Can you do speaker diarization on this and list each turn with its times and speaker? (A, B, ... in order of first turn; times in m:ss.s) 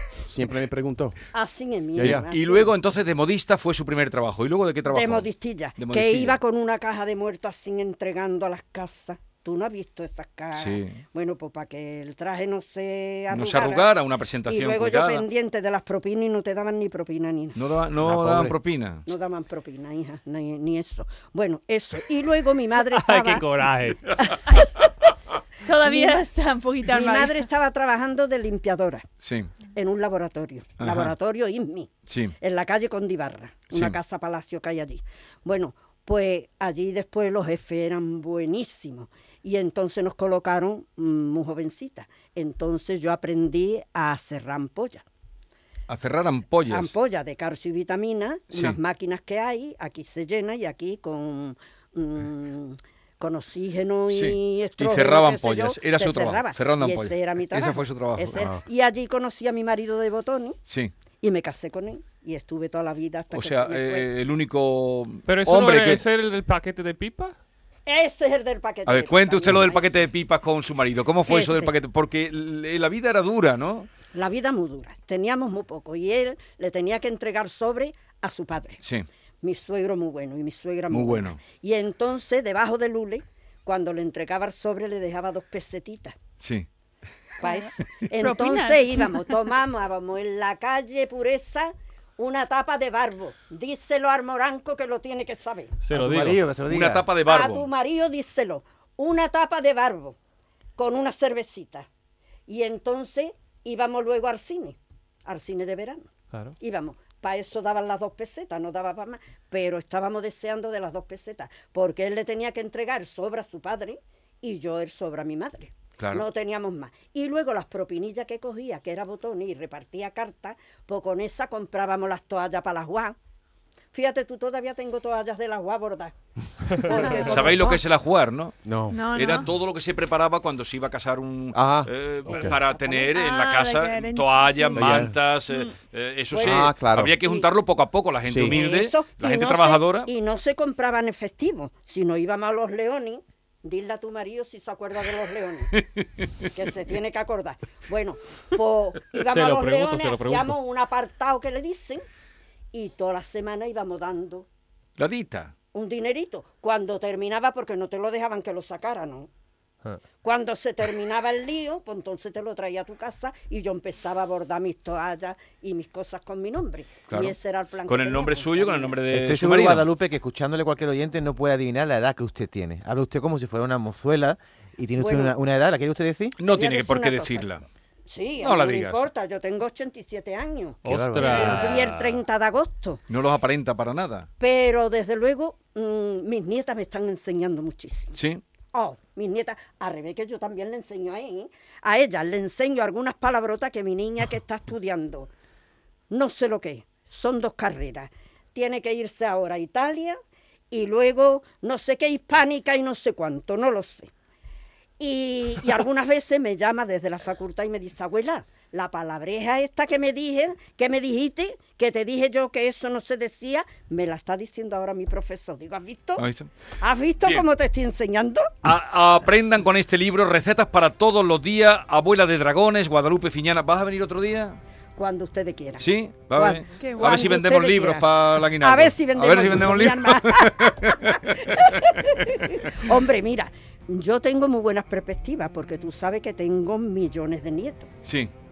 0:00.2-0:01.2 A
0:01.3-0:02.7 B
0:02.0-0:02.2 A
0:02.0-0:06.4 C
0:04.9-0:13.9 B
0:10.5-0:11.0 C
0:13.3-0:15.2 C
0:14.4-0:17.6 B
0:17.6-0:19.0 C
0:18.0-0:18.5 D
0:19.0-0:23.4 B
0:22.8-0:24.2 E
0:25.6-0:27.4 F
0:25.8-0:26.3 B
0:26.8-0:29.0 B
0:29.2-0:29.5 C
0:29.7-0:31.9 B
0:30.8-0:31.1 C
0:32.1-0:32.3 C
0:32.4-0:45.0 B
0:33.7-0:34.0 C
0:45.9-0:46.9 C
0:46.7-1:00.6 B
0:48.5-0:48.8 C
0:54.1-0:58.3 C
0:58.3-0:58.6 A
1:00.7-1:00.9 C
1:01.2-1:04.1 B
1:03.3-1:06.0 C
1:05.2-1:07.4 E
1:07.8-1:09.9 B
1:08.8-1:13.9 C
1:11.2-1:11.7 B
1:14.1-1:18.8 B
1:19.4-1:26.1 B
1:20.9-1:21.4 C
1:26.4-1:26.7 C
1:27.4-1:35.7 B
1:27.4-1:27.6 F
1:28.2-1:29.2 F
1:35.8-1:36.4 E
1:35.9-1:37.1 D
1:36.6-1:37.7 C
1:37.2-1:40.2 B
1:40.8-1:41.9 B
1:42.5-1:46.1 B
1:46.6-2:03.1 B
1:56.0-1:56.2 C
2:03.9-2:06.1 B
2:06.7-2:07.8 B
2:07.0-2:07.3 F
2:07.1-2:08.6 C
2:08.6-2:09.1 A
2:08.9-2:09.5 F
2:09.1-2:20.1 C
2:11.5-2:12.6 A
2:12.3-2:13.1 B
2:13.1-2:14.9 F
2:14.7-2:15.1 A
2:15.5-2:15.8 F
2:16.3-2:16.7 B
2:16.4-2:17.2 A
2:17.2-2:17.5 B
2:18.2-2:18.6 A
2:18.4-2:25.8 B
2:25.8-2:26.0 C
2:26.5-2:32.0 B
2:29.2-2:30.5 E
2:32.7-2:34.5 B
2:35.0-2:35.5 C
2:35.7-2:39.3 B
2:40.2-2:49.0 B
2:47.1-2:47.4 C
2:47.9-2:49.9 C
2:49.1-2:56.4 D
2:55.0-2:55.4 B
2:56.4-2:57.6 C
2:56.4-2:57.5 B
2:58.1-3:03.0 B
2:58.4-2:59.0 C
3:00.8-3:02.2 E
3:00.9-3:01.3 D
3:03.1-3:04.3 C
3:04.4-3:08.1 B
3:08.1-3:08.4 C
3:08.7-3:15.3 B
3:16.1-3:20.2 B
3:20.7-3:24.1 B
3:25.0-3:36.2 B
3:36.2-3:36.5 C
3:36.8-3:38.5 B
3:38.6-3:44.6 C
3:45.0-3:57.9 B
3:45.8-3:51.8 C
3:46.8-3:47.3 F
3:58.0-3:58.3 C